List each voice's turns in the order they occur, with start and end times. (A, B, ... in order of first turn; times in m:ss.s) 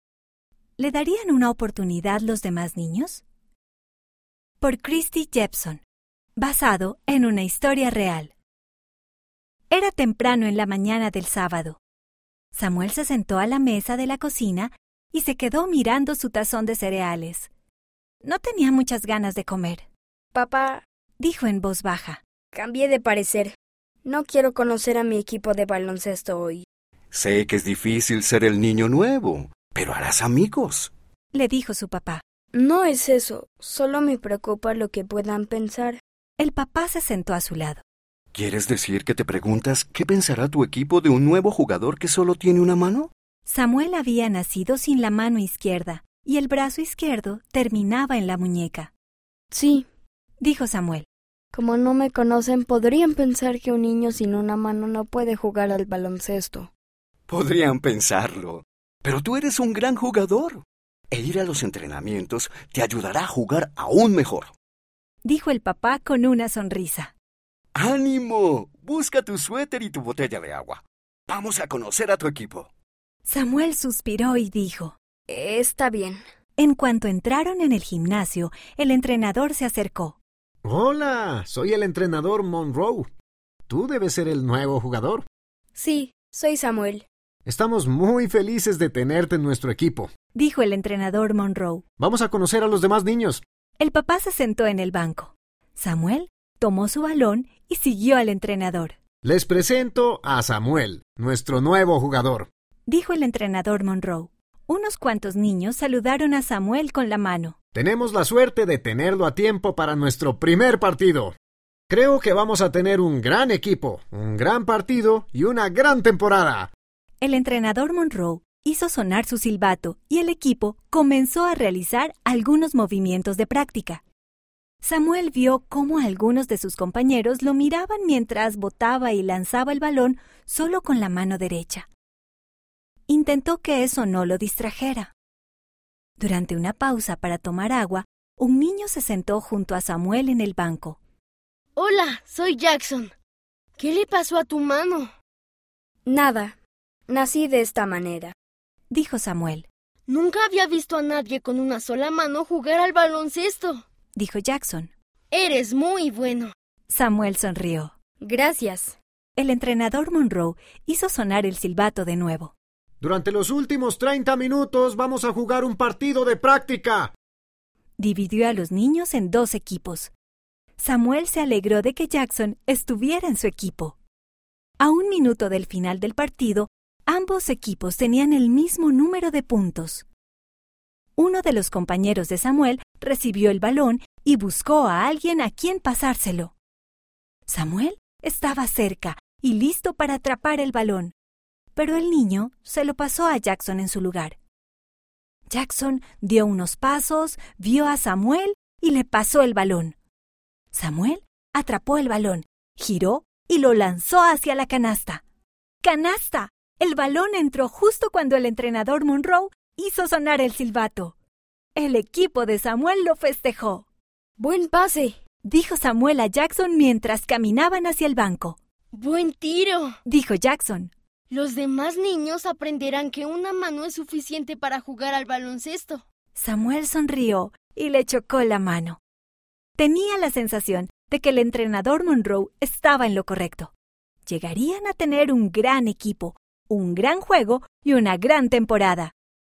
0:00.8-0:03.2 A
0:04.6-0:05.8 A
0:06.4-0:08.3 A
0:09.7-0:11.8 A
0:12.5-0:17.5 A
0:18.2-0:19.8 A
0:20.4-0:20.8 B
0:21.2-0:22.2 A
0:22.5-0:26.6 B
0:27.1-0:30.9 C
0:31.3-0:32.2 A
0:32.5-0:36.0 B
0:36.4-0:37.8 A
0:38.3-0:43.1 C
0:43.5-0:48.9 A
0:49.5-0:49.9 B
0:50.4-0:51.1 A
0:51.5-0:56.7 B
0:57.3-1:04.6 C
1:05.2-1:07.1 A
1:07.8-1:12.7 C
1:13.2-1:15.0 A
1:15.3-1:16.2 B
1:16.6-1:20.2 A
1:20.6-1:23.1 D
1:23.7-1:25.2 D
1:25.8-1:27.1 B
1:27.5-1:30.1 D
1:30.3-1:31.8 A
1:32.0-1:33.4 D
1:33.8-1:39.0 A
1:39.2-1:42.5 D
1:42.9-1:47.6 A
1:47.8-1:51.4 D
1:51.9-1:56.7 D
1:57.2-2:04.0 A
2:04.8-2:11.9 A
2:13.1-2:15.1 A
2:16.2-2:21.0 A
2:21.8-2:23.1 E
2:23.8-2:25.1 E
2:26.1-2:26.6 B
2:27.1-2:28.3 B
2:28.9-2:29.7 A
2:30.1-2:33.8 E
2:34.2-2:34.9 A
2:35.3-2:36.5 E
2:36.9-2:37.9 A
2:38.2-2:39.0 B
2:39.4-2:42.5 A
2:43.0-2:47.1 D
2:48.0-2:50.1 A
2:50.8-2:54.0 A
2:54.8-3:00.0 A
3:01.2-3:06.6 A
3:07.5-3:11.1 A
3:11.8-3:14.4 A
3:15.5-3:20.0 A
3:20.7-3:25.2 A
3:25.8-3:31.2 A
3:31.8-3:33.9 A
3:34.4-3:35.2 B
3:35.4-3:38.6 A
3:38.9-3:40.0 E
3:40.1-3:40.9 A
3:41.3-3:46.0 E
3:46.4-3:49.0 A
3:49.8-3:53.7 A
3:54.3-3:59.1 A